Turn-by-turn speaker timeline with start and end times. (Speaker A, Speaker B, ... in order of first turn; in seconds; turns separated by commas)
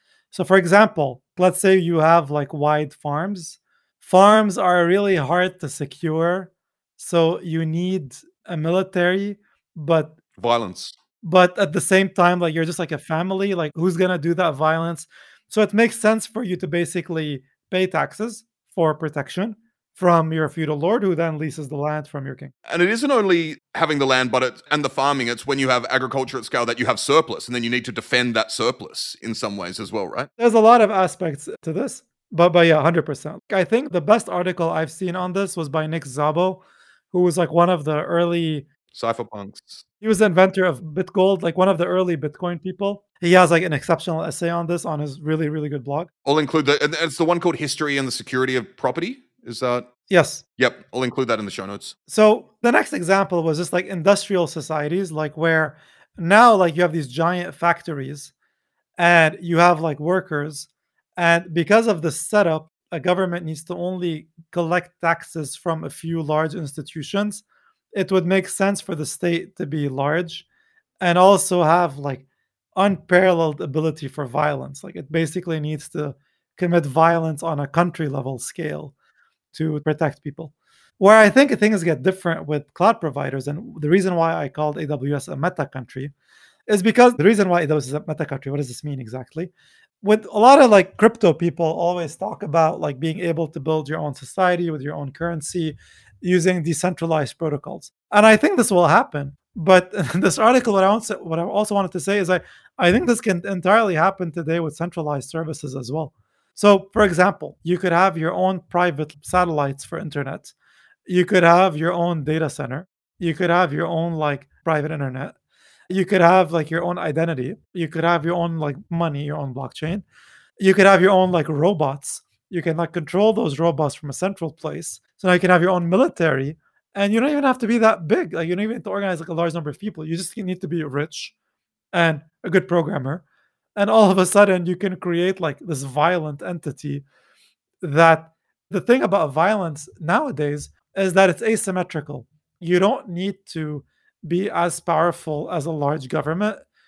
Speaker A: 0.3-10.2, Speaker B: 10.4-11.0, Speaker A: 11.2-22.5, Speaker B: 22.7-30.3, Speaker A: 30.4-38.6, Speaker B: 38.9-39.8, Speaker A: 40.0-46.1, Speaker B: 46.2-49.9, Speaker A: 50.1-50.4, Speaker B: 50.6-52.0, Speaker A: 52.1-58.3, Speaker A: 59.0-70.4, Speaker A: 71.0-78.9, Speaker A: 79.5-86.1, Speaker A: 86.7-110.5, Speaker A: 111.1-115.3, Speaker A: 115.9-120.0, Speaker A: 120.6-131.3, Speaker A: 131.9-133.2, Speaker A: 133.8-137.0, Speaker A: 137.8-146.6